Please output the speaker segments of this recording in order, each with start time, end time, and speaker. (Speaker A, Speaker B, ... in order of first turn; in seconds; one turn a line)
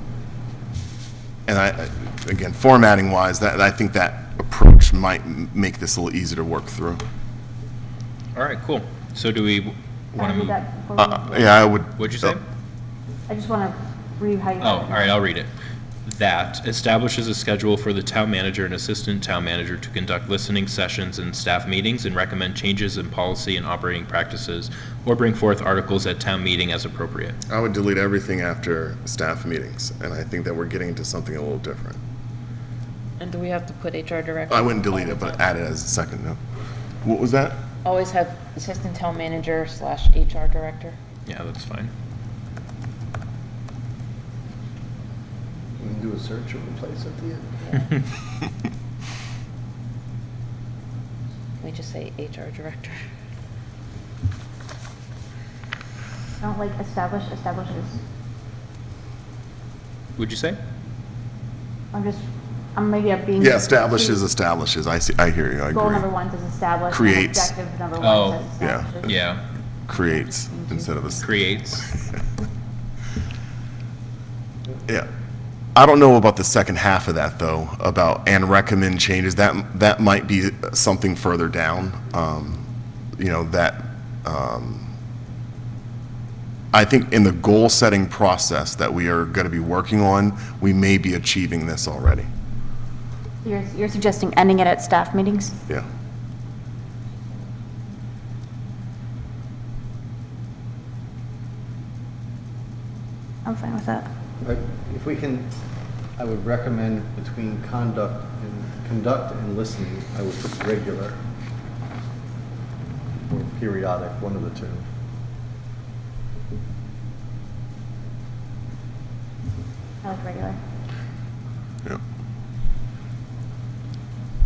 Speaker A: 1.5-7.0
Speaker B: 8.3-10.6
Speaker C: 10.2-11.7
Speaker A: 11.0-12.4
Speaker B: 12.0-12.4
Speaker C: 13.3-15.2
Speaker B: 14.6-15.5
Speaker B: 16.1-27.4
Speaker A: 27.5-32.0
Speaker D: 33.2-35.5
Speaker A: 34.5-36.4
Speaker A: 37.0-37.6
Speaker D: 37.9-41.0
Speaker B: 41.3-41.9
Speaker E: 45.8-47.9
Speaker D: 51.6-53.0
Speaker C: 56.4-58.0
Speaker B: 60.2-60.6
Speaker C: 61.9-62.2
Speaker C: 62.8-64.2
Speaker A: 63.4-66.1
Speaker C: 65.7-69.3
Speaker A: 66.9-67.5
Speaker B: 68.0-68.5
Speaker A: 68.5-69.2
Speaker B: 69.0-69.4
Speaker A: 69.9-72.1
Speaker C: 69.9-71.2
Speaker B: 71.2-71.9
Speaker A: 75.8-84.9
Speaker A: 86.7-92.3
Speaker C: 93.4-95.5
Speaker C: 103.5-104.1
Speaker E: 104.4-105.5
Speaker E: 106.2-111.2
Speaker E: 113.3-114.8
Speaker C: 120.0-120.6